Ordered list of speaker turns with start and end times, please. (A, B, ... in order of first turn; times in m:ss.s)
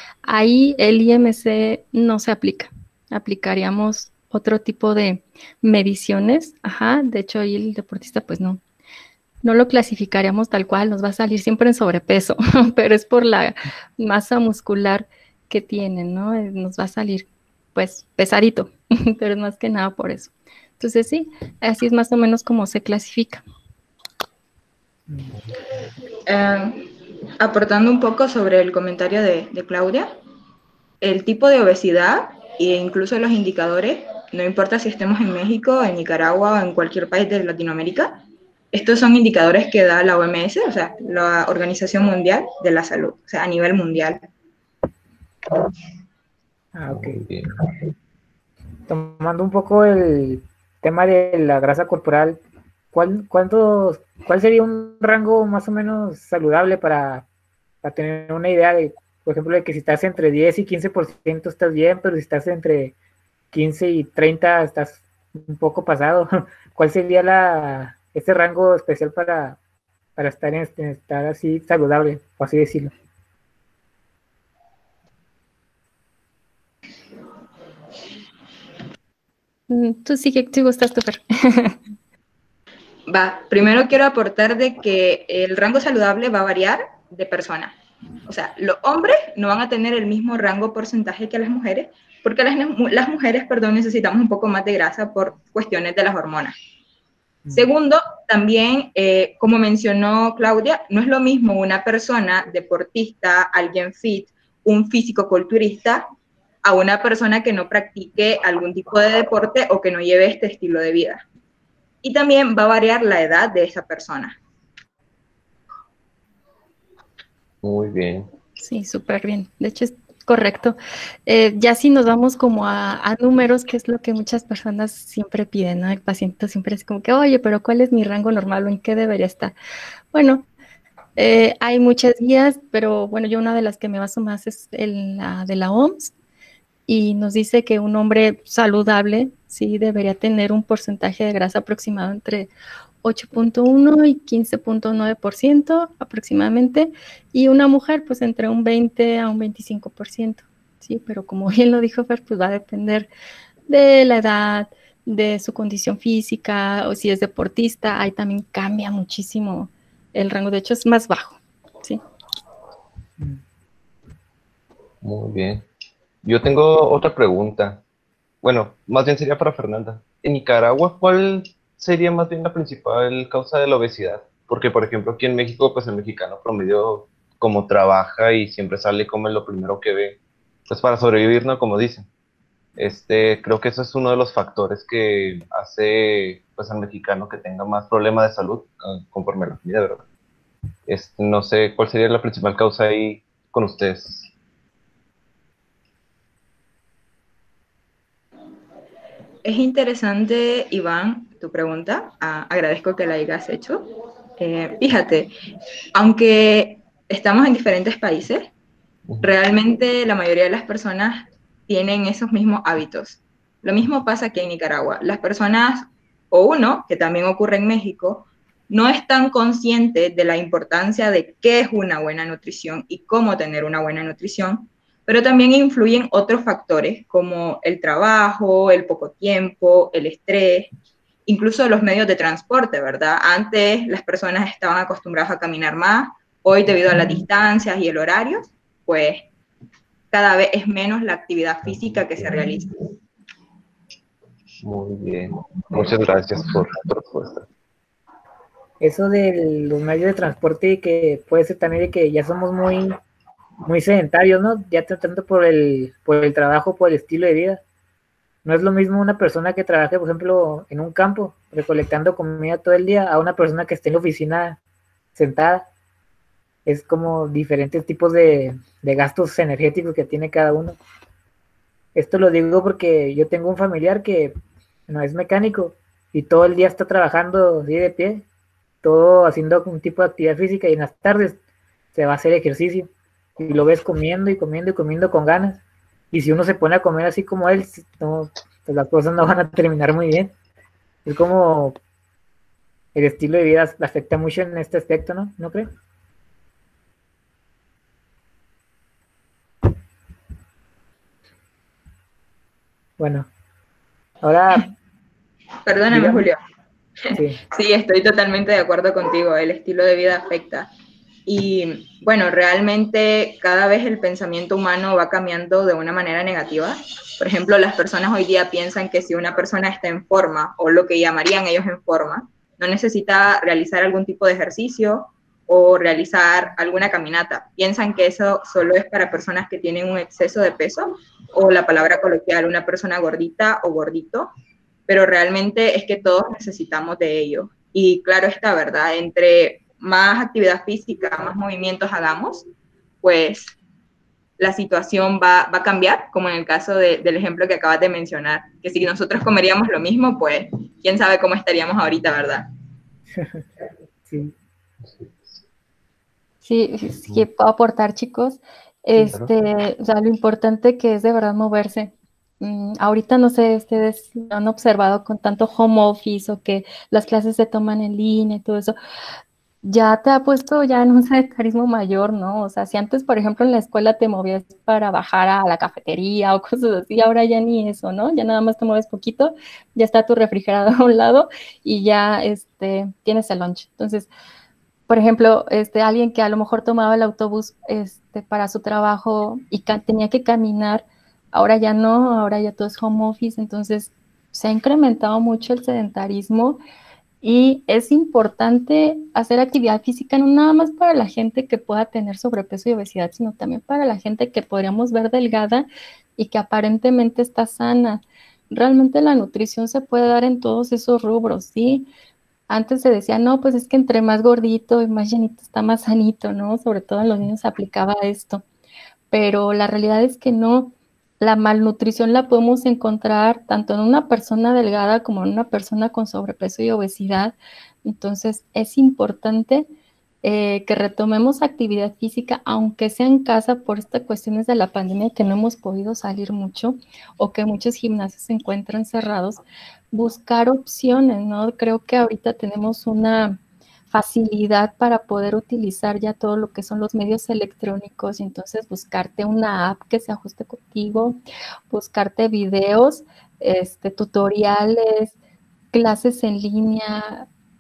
0:00.2-0:08.6 A
0:09.4-0:23.4 A
0:26.3-0:30.1 B
0:31.0-0:38.2 B
0:38.7-0:44.2 B
0:46.7-0:47.2 C
0:46.9-0:47.5 D
0:48.9-0:52.4 C
0:52.9-0:57.2 C
0:57.8-1:03.0 C
1:03.5-1:09.6 C
1:10.2-1:12.9 C
1:19.7-1:21.8 A
1:23.1-1:27.8 B
1:28.3-1:36.6 B
1:37.5-1:46.1 B
1:46.6-1:51.2 B
1:52.0-1:54.4 B
1:57.6-1:58.3 D
1:58.6-2:09.6 A
2:10.1-2:10.5 A
2:11.2-2:16.1 A
2:16.9-2:22.5 A
2:23.0-2:33.1 A
2:33.7-2:42.0 A
2:45.0-2:45.6 D
2:46.2-2:47.8 D
2:48.4-3:02.1 D
3:02.8-3:10.0 D
3:10.9-3:14.3 D
3:19.4-3:25.3 B
3:26.0-3:28.5 B
3:29.2-3:50.7 B
3:51.3-3:59.3 B
4:00.1-4:02.8 B
4:01.7-4:02.5 D
4:04.6-4:07.5 D
4:08.8-4:13.0 C
4:13.6-4:17.6 C
4:18.4-4:24.6 C
4:25.2-4:25.7 C
4:26.7-4:30.8 C
4:32.0-4:34.4 C
4:34.9-4:38.2 C
4:38.8-4:41.4 C
4:41.9-4:45.6 C
4:46.1-4:50.3 C
4:51.0-4:51.8 C
4:53.0-4:55.7 C
5:03.0-5:03.3 C
5:04.2-5:04.7 C
5:05.7-5:06.4 B
5:05.9-5:06.3 C
5:07.0-5:10.7 B
5:07.1-5:07.4 C
5:11.3-5:34.3 B
5:34.9-5:42.5 B
5:43.0-5:43.6 B
5:44.4-5:52.5 B
5:53.1-5:53.4 C
5:54.1-5:54.3 C
5:54.8-5:55.4 D
5:56.4-6:08.8 A
5:59.0-5:59.3 D
6:09.6-6:24.1 A
6:24.9-6:36.6 A
6:37.2-6:51.9 A
6:52.5-6:58.4 A
6:59.1-7:09.7 A
7:10.2-7:23.4 A
7:23.9-7:31.2 A
7:31.7-7:35.1 A
7:35.7-7:37.3 A